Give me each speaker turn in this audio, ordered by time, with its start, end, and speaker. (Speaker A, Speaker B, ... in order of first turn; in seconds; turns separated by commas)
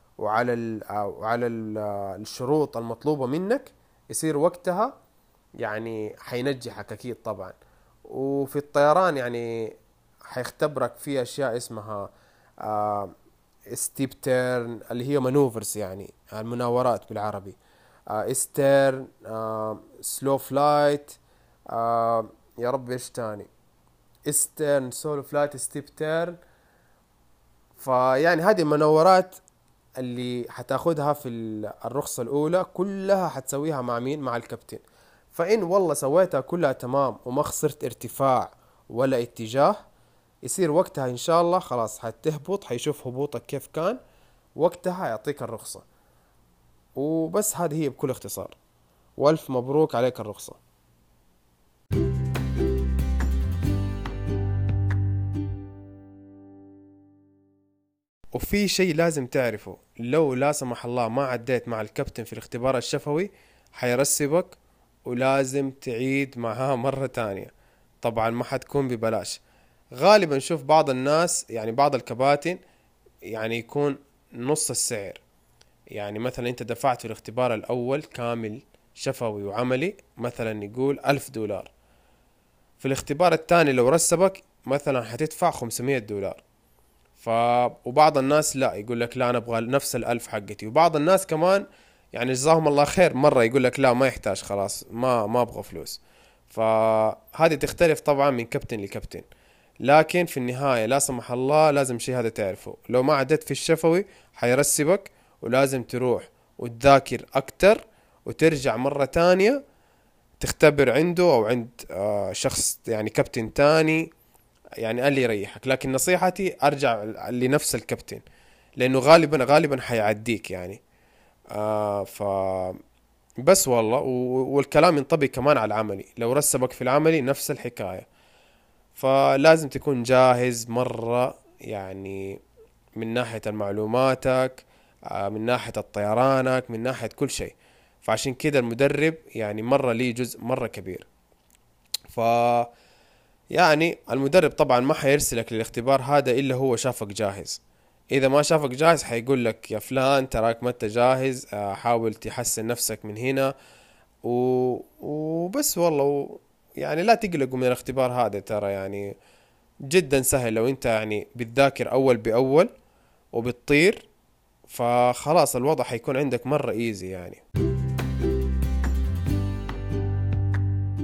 Speaker A: 0.2-4.9, Speaker A: 5.6-7.6, Speaker A: 8.1-9.7, Speaker A: 10.3-12.1, Speaker A: 12.6-13.1, Speaker A: 13.7-17.6, Speaker A: 18.1-21.2, Speaker A: 21.7-23.5, Speaker A: 24.3-26.4, Speaker A: 27.8-29.4, Speaker A: 30.0-39.8, Speaker A: 40.4-44.0, Speaker A: 44.6-45.8, Speaker A: 47.0-48.6, Speaker A: 49.2-50.6, Speaker A: 58.3-67.5, Speaker A: 68.0-69.4, Speaker A: 70.0-72.6, Speaker A: 73.3-75.2, Speaker A: 75.9-81.7, Speaker A: 82.8-86.4, Speaker A: 87.2-99.3, Speaker A: 99.8-109.6, Speaker A: 110.4-114.1, Speaker A: 114.8-118.2, Speaker A: 118.8-120.8, Speaker A: 121.5-122.8, Speaker A: 123.4-128.1, Speaker A: 128.9-132.4, Speaker A: 133.0-141.1, Speaker A: 142.1-142.7, Speaker A: 143.5-147.6, Speaker A: 148.1-153.5, Speaker A: 154.2-159.1, Speaker A: 159.9-162.7, Speaker A: 163.3-164.1, Speaker A: 164.7-167.4